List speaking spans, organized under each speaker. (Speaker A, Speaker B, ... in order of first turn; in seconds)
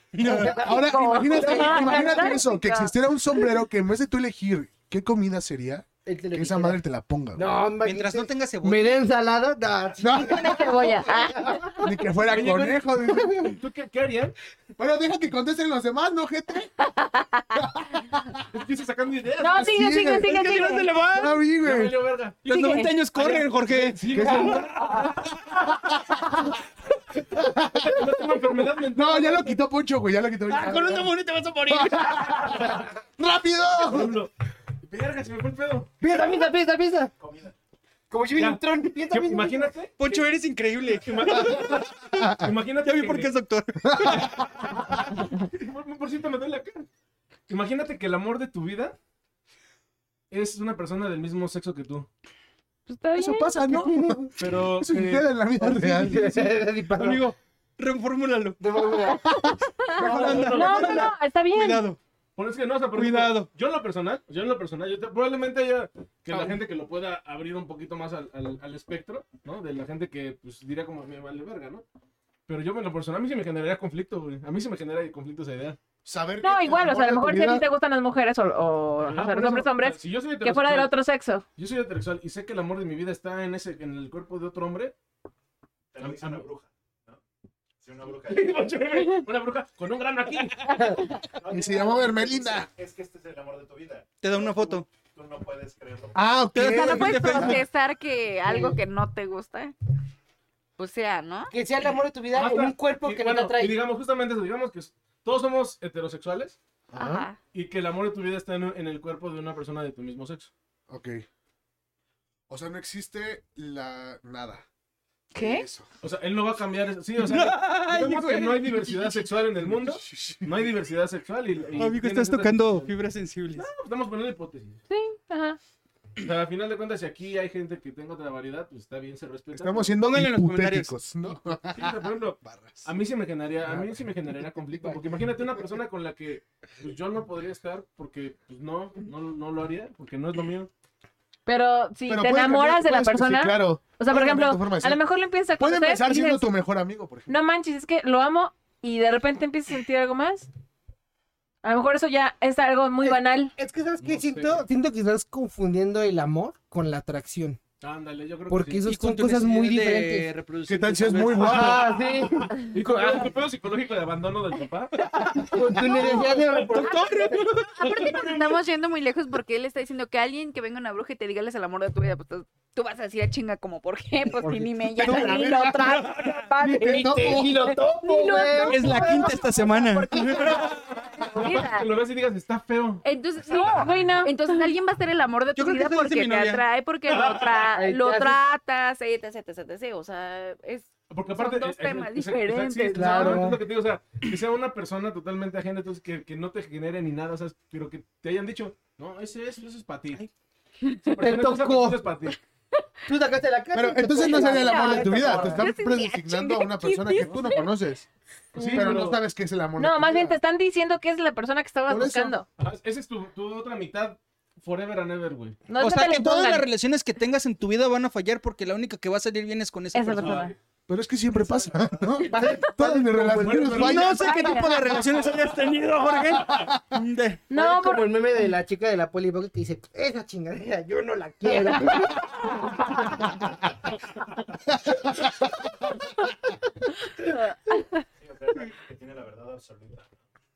Speaker A: 0.1-0.6, 7.8-8.9, 20.3-21.4, 22.4-25.2, 30.5-32.6, 40.0-44.4, 57.0-58.6, 60.0-62.0, 62.9-63.5, 94.2-94.8, 96.5-97.6, 117.2-119.2, 121.7-123.7, 130.0-130.9, 158.8-161.8, 164.9-168.6, 176.0-176.3, 178.7-180.6, 185.5-186.6, 215.8-220.5, 223.7-227.4
Speaker B: 0.2-7.5, 10.0-10.9, 11.8-13.6, 14.8-16.7, 17.5-18.4, 19.5-22.0, 24.1-24.7, 26.1-26.4, 27.3-28.1, 28.9-31.1, 31.7-34.1, 43.8-44.3, 53.1-56.5, 59.0-60.7, 76.0-77.6, 91.5-92.7, 96.1-97.6, 106.9-107.3, 110.9-111.2, 112.5-114.6, 115.3-115.9, 119.7-120.6, 129.5-132.9, 133.6-135.7, 142.1-145.0, 145.6-147.4, 160.6-162.0, 174.4-177.8, 180.1-180.7, 203.7-210.4, 211.9-212.4, 220.9-224.3, 226.2-227.0, 234.8-235.6
Speaker C: 0.2-2.4, 6.0-6.8, 7.3-11.7, 36.0-37.1, 38.1-39.7, 55.6-57.3, 58.6-59.2, 98.5-98.8, 101.5-103.8, 153.0-157.6, 158.5-160.3, 161.4-163.3, 165.4-167.4, 176.8-179.7, 187.7-188.4, 192.9-193.6, 201.2-202.1, 203.1-205.7, 222.2-224.3, 227.5-233.2
Speaker D: 0.7-2.8, 10.2-11.9, 19.4-20.9, 22.5-23.0, 52.9-53.8, 59.9-61.9, 76.4-81.4, 115.3-115.6, 124.9-125.6, 141.4-146.5, 147.3-150.5, 151.6-153.5, 178.0-179.4, 183.4-184.7, 208.6-209.0, 209.8-212.4, 215.7-216.7, 219.9-220.5, 224.1-225.0, 227.5-228.2
Speaker E: 12.3-14.3, 18.5-19.8, 21.6-22.4, 23.1-25.4, 27.7-29.5, 33.9-34.3, 34.8-35.9, 38.4-40.2, 40.9-43.3, 44.0-46.9, 47.5-49.0, 50.3-52.1, 54.4-55.3, 60.0-61.1, 62.4-71.8, 72.5-75.8, 79.0-80.9, 81.5-84.9, 86.0-86.5, 88.2-90.8, 102.3-106.6, 107.5-110.5, 116.0-122.9, 123.5-124.8, 126.2-129.9, 131.7-140.7, 154.0-154.6, 157.8-158.8, 161.3-165.1, 165.9-166.9, 181.3-183.0, 187.1-187.5, 191.1-200.3, 201.0-202.4, 208.5-209.2, 212.6-215.6
Speaker F: 37.2-37.5, 85.9-87.2, 87.8-88.8, 91.2-96.3, 220.2-220.5, 221.3-222.2, 238.2-240.1
Speaker G: 96.6-99.7, 100.8-101.5, 107.0-107.3, 167.7-177.4, 178.1-181.9, 183.0-193.5, 204.2-207.3